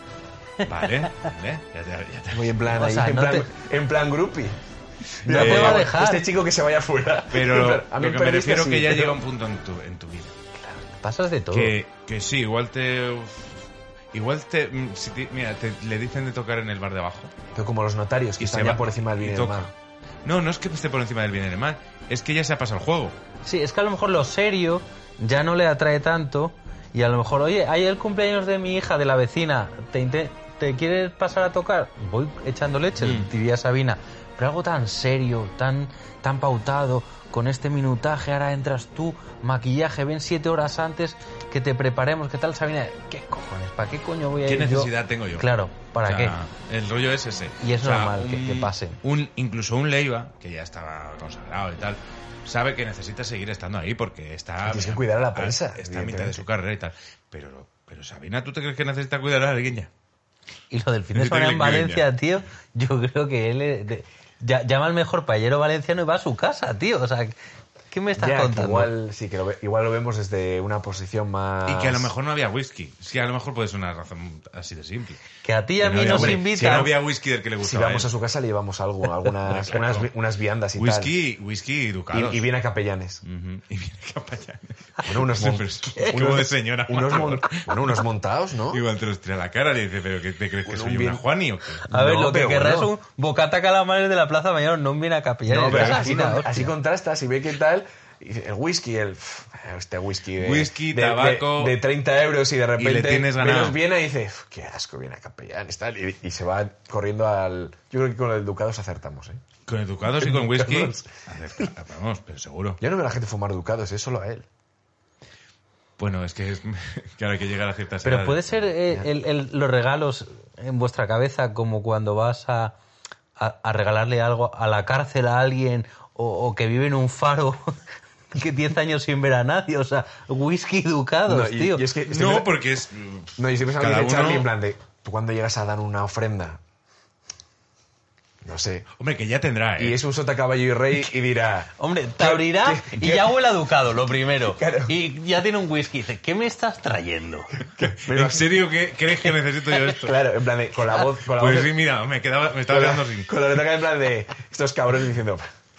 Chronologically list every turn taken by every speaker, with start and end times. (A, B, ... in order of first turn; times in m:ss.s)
0:00.6-0:02.6 A
0:02.3-0:04.6 B
0:02.7-0:03.5 C
0:05.2-0:09.2 B
0:05.2-0:05.9 A
0:05.3-0:06.2 C
0:07.3-0:10.4 A
0:10.6-0:11.8 C
0:11.5-0:13.6 A
0:14.1-0:17.3 A
0:17.5-0:19.7 B
0:18.4-0:19.7 A
0:20.2-0:23.2 A
0:23.4-0:46.4 C
0:33.0-0:33.3 A
0:44.4-0:45.5 A
0:46.0-0:59.9 A
0:47.6-0:49.0 C
0:54.6-0:56.4 B
1:00.7-1:07.4 C
1:01.1-1:02.0 A
1:07.9-1:08.9 C
1:08.2-1:12.1 B
1:11.6-1:15.2 A
1:15.4-1:16.9 C
1:15.8-1:18.1 A
1:16.0-1:17.0 B
1:17.6-1:21.1 B
1:19.4-1:20.1 A
1:20.8-1:22.5 A
1:22.1-1:23.2 B
1:23.2-1:27.9 A
1:25.0-1:28.8 B
1:28.7-1:31.8 A
1:30.6-1:31.2 B
1:31.9-1:32.9 B
1:31.9-1:36.7 C
1:35.5-1:49.4 B
1:35.7-1:36.2 A
1:40.4-1:41.8 A
1:42.8-1:43.8 A
1:49.7-1:52.8 A
1:50.1-1:51.0 B
1:52.8-1:54.5 B
1:56.0-1:58.7 A
1:58.0-2:02.8 C
2:03.4-2:07.8 C
2:08.3-2:11.9 C
2:11.3-2:12.6 B
2:12.1-2:14.5 A
2:13.4-2:16.6 B
2:18.4-2:18.9 B
2:19.0-2:20.0 A
2:19.8-2:23.4 B
2:21.8-2:27.5 C
2:24.4-2:24.9 B
2:27.7-2:28.5 B
2:27.8-2:30.2 A
2:29.9-2:31.8 B
2:31.3-2:33.4 A
2:32.7-2:35.5 B